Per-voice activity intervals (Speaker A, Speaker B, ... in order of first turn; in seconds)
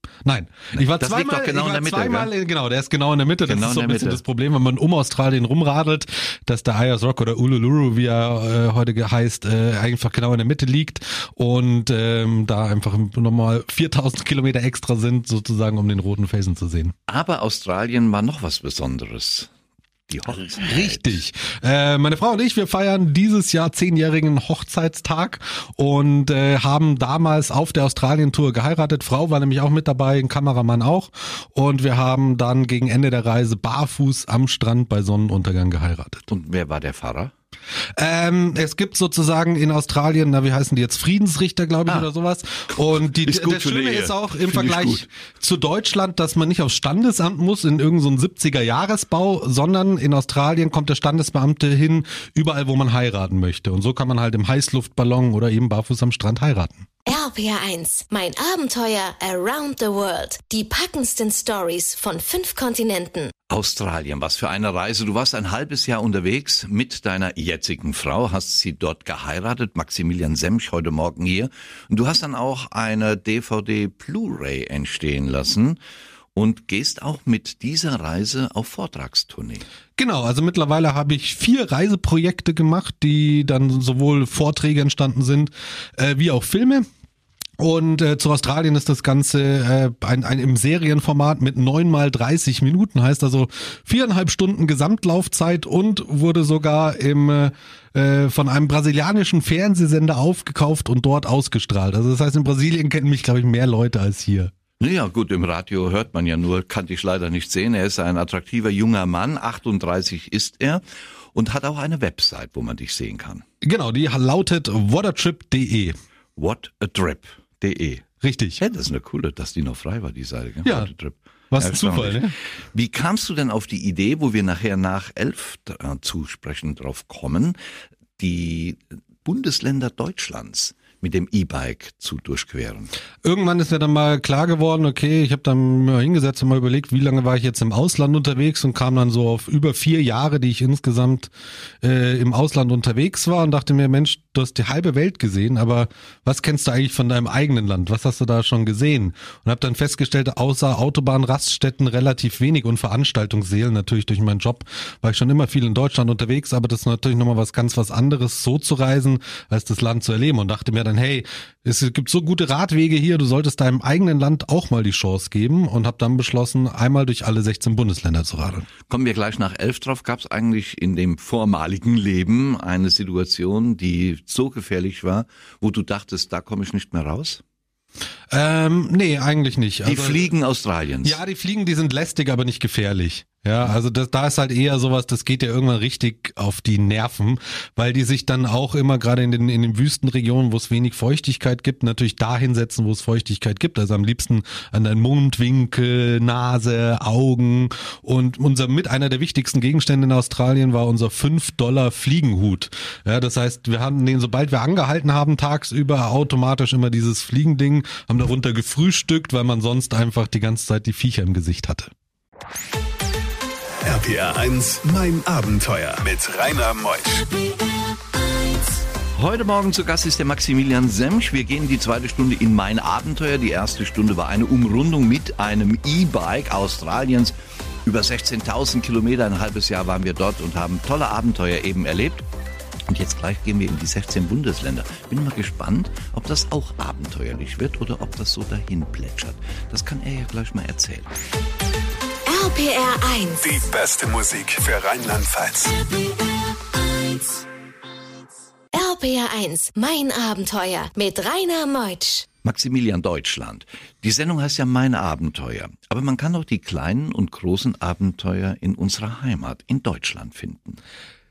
Speaker A: 0.2-16.9, 20.5-36.3, 38.0-56.9, 80.0-86.9, 87.6-104.5, 113.6-116.0, 118.2-118.6, 120.6-120.9, 121.5-122.3, 133.2-141.3, 141.8-168.7, 178.3-180.3, 181.0-211.9
Speaker B: 0.8-2.3, 3.5-4.2, 17.1-19.5, 20.1-21.1, 36.3-37.3, 43.1-45.0, 63.5-75.8, 76.3-79.6, 104.8-110.8, 111.3-113.4, 116.4-118.0, 118.6-127.6, 128.2-132.9, 168.9-177.4, 179.8-181.2, 219.2-232.2, 232.9-241.1, 252.4-260.8
Speaker C: 57.1-63.3, 242.3-243.6, 248.7-252.3
Speaker D: 213.8-217.3, 243.4-245.8